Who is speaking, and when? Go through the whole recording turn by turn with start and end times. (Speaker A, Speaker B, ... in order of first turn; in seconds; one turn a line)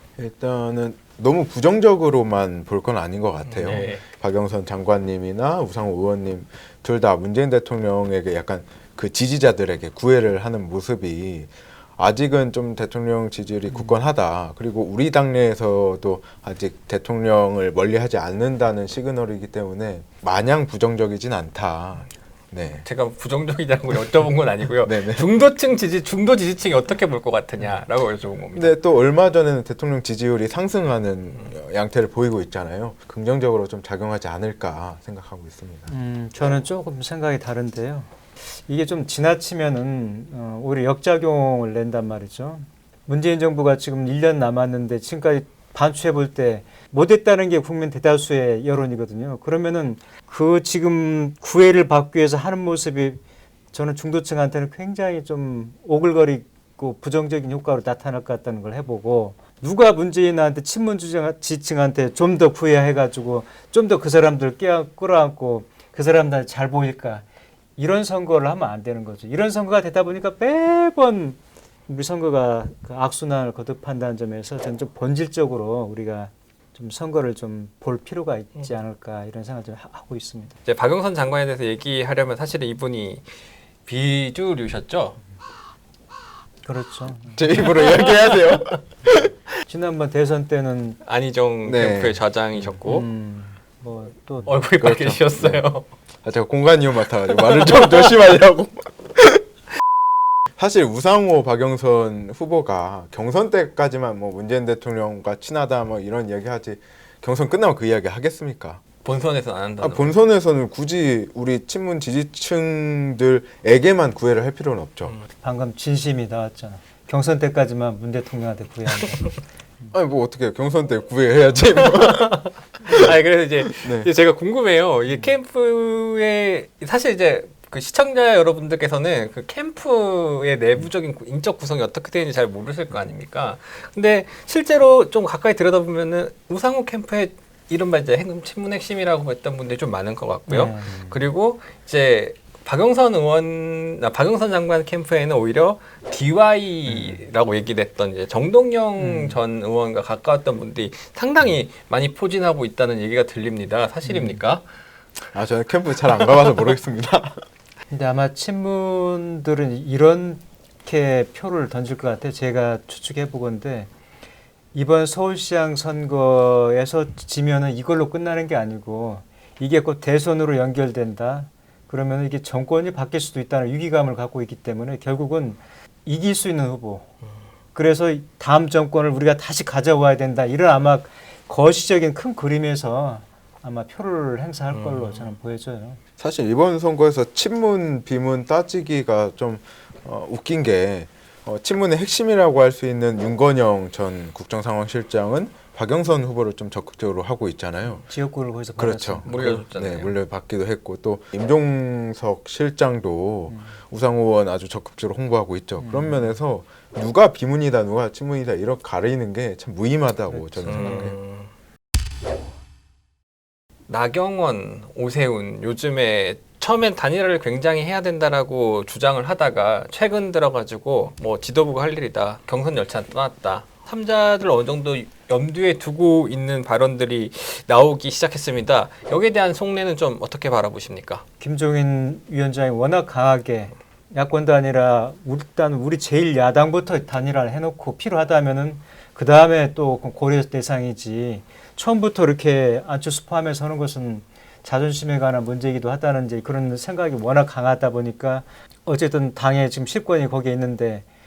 Speaker A: 0.2-22.9
Speaker B: 3.5-4.0
Speaker B: 22.9-28.8
Speaker A: 24.8-25.3
Speaker A: 28.6-35.9
Speaker C: 35.9-53.2
Speaker C: 53.7-67.2
Speaker C: 67.8-80.5
Speaker B: 80.7-83.2
Speaker B: 83.9-85.2
Speaker C: 86.7-87.4
Speaker A: 87.3-89.3
Speaker B: 87.6-88.7
Speaker C: 89.7-91.0
Speaker B: 91.0-93.1
Speaker A: 91.7-92.2
Speaker C: 92.8-94.6
Speaker B: 94.5-95.9
Speaker A: 94.8-95.7
Speaker A: 96.2-99.4
Speaker B: 97.7-98.0
Speaker A: 100.6-108.8
Speaker B: 109.0-110.2
Speaker A: 109.8-115.2
Speaker C: 115.4-119.9
Speaker A: 119.9-122.4
Speaker B: 121.8-154.6
Speaker A: 123.8-124.1
Speaker C: 140.5-141.0
Speaker C: 149.0-149.4
Speaker C: 154.1-154.4
Speaker A: 155.3-157.4
Speaker C: 157.9-163.9
Speaker C: 164.7-177.1
Speaker C: 177.8-186.0
Speaker B: 184.7-185.3
Speaker A: 186.2-198.1
Speaker C: 198.0-199.6
Speaker A: 198.8-211.2
Speaker B: 199.2-200.2
Speaker C: 205.8-206.4
Speaker C: 210.3-211.1
Speaker B: 210.6-211.5
Speaker B: 213.9-231.2
Speaker C: 231.4-251.1